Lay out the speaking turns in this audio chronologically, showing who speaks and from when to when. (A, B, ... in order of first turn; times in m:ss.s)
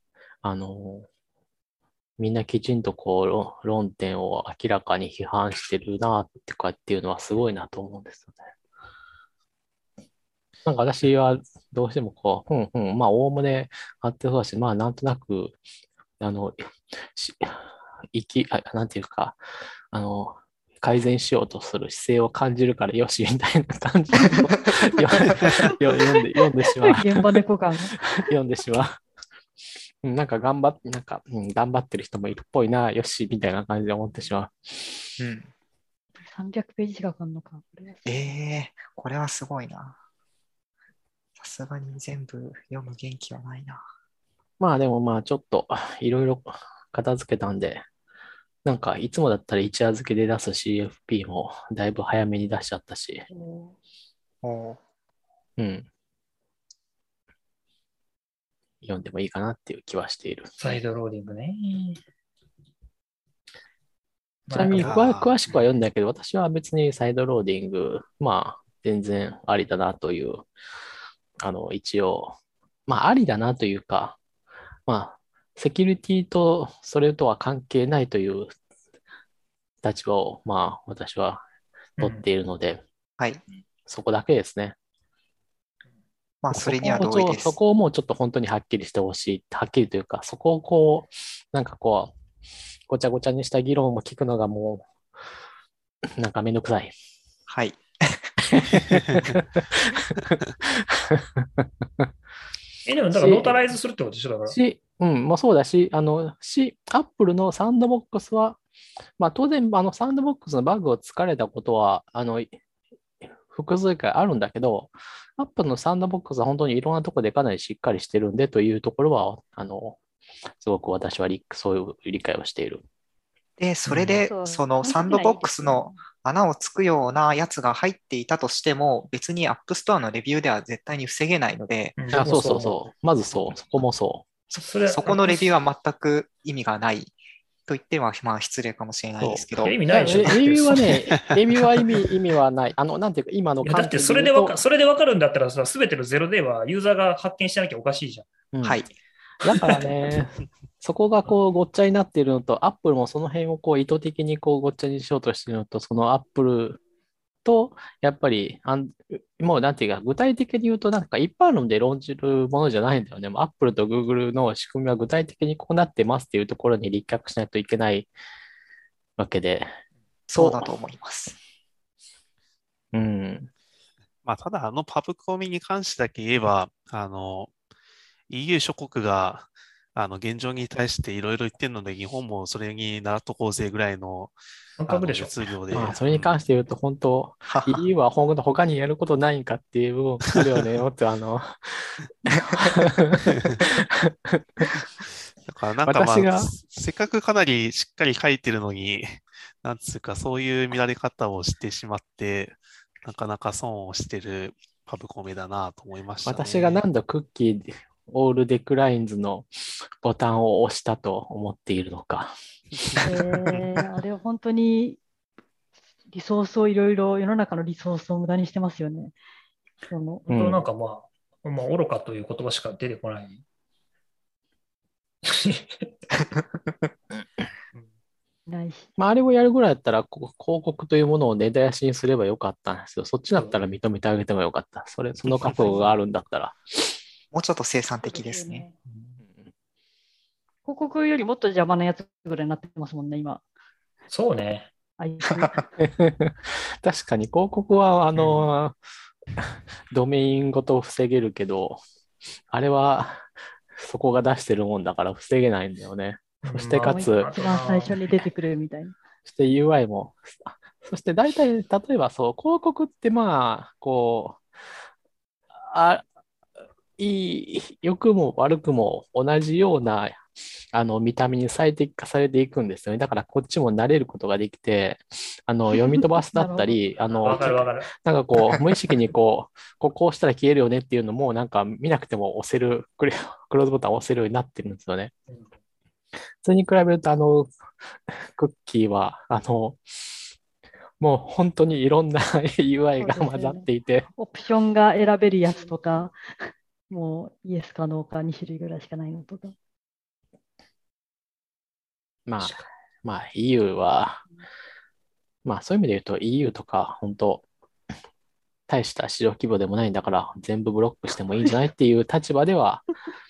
0:00.4-0:01.1 A
0:02.2-0:08.4 A
0:10.6-0:15.6 A
0:16.2-0:19.4 A
0:19.9-0:27.4 A
0:25.3-0:25.5 B
0:25.6-0:28.0 C
0:28.0-0:29.0 A
0:30.0-0:35.1 A
0:35.2-0:35.5 B
0:36.2-0:38.3 C
0:38.0-0:40.0 B
0:41.4-0:43.8 B
0:44.6-0:47.8 A
0:48.6-0:53.2 A
0:53.3-0:53.7 C
0:54.4-0:54.8 B
0:55.6-0:55.9 A
0:58.8-1:00.5 A
1:00.6-1:02.0 D
1:04.5-1:05.6 D
1:04.5-1:10.5 A
1:04.7-1:05.3 E
1:11.4-1:12.3 A
1:12.9-1:14.2 A
1:14.9-1:18.5 A
1:19.8-1:21.4 A
1:22.0-1:22.2 D
1:22.0-1:22.8 A
1:23.9-1:24.7 A
1:26.4-1:27.6 B
1:26.5-1:32.1 A
1:32.9-1:34.8 A
1:36.2-1:36.9 A
1:37.5-1:38.3 B
1:38.5-1:42.1 A
1:42.8-1:44.6 D
1:43.1-1:43.6 A
1:44.5-1:48.6 A
1:49.2-1:52.5 A
1:53.4-2:00.0 A
2:00.6-2:02.8 A
2:03.6-2:12.0 B
2:04.2-2:06.0 C
2:12.0-2:12.8 D
2:12.1-2:14.2 A
2:14.5-2:15.4 D
2:14.6-2:17.1 B
2:17.7-2:20.3 B
2:19.2-2:24.6 A
2:19.6-2:20.9 D
2:23.6-2:28.3 D
2:28.5-2:28.8 A
2:28.6-2:28.9 B
2:29.4-2:36.8 A
2:29.5-2:29.8 D
2:37.4-2:48.1 A
2:49.2-2:49.7 A
2:50.3-2:51.4 B
2:50.4-2:50.7 A
2:52.9-2:53.5 A
2:54.2-2:57.5 E
2:58.3-3:04.3 E
3:04.8-3:05.3 D
3:04.9-3:06.4 E
3:05.7-3:12.0 A
3:07.5-3:07.8 B
3:12.3-3:12.7 B
3:12.5-3:14.7 A
3:15.5-3:26.8 E
3:15.8-3:16.5 A
3:26.2-3:32.3 A
3:32.8-3:33.0 E
3:33.0-3:35.0 C
3:36.1-3:39.1 C
3:39.9-3:40.2 C
3:40.3-3:43.4 D
3:40.3-3:40.6 A
3:45.2-3:45.9 D
3:48.5-3:48.9 C
3:49.0-3:56.9 A
3:55.4-3:55.7 E
3:57.3-3:58.6 B
3:58.0-3:58.7 C
3:58.9-3:59.2 D
4:00.6-4:03.4 C
4:04.1-4:04.7 D
4:05.0-4:05.6 C
4:05.3-4:05.6 B
4:05.8-4:08.8 A
4:09.4-4:11.8 A
4:12.5-4:17.4 A
4:16.4-4:18.1 D
4:16.8-4:19.0 C
4:19.2-4:24.4 A
4:25.5-4:26.0 A
4:27.0-4:30.2 A
4:30.7-4:45.1 A
4:35.7-4:37.5 C
4:37.2-4:37.9 D
4:46.4-4:47.5 A
4:48.1-4:50.2 A
4:51.0-4:54.1 A
4:53.0-4:56.2 C
4:56.9-4:59.5 C
5:02.3-5:04.2 A
5:02.4-5:02.7 D
5:05.4-5:07.4 A
5:08.7-5:12.9 A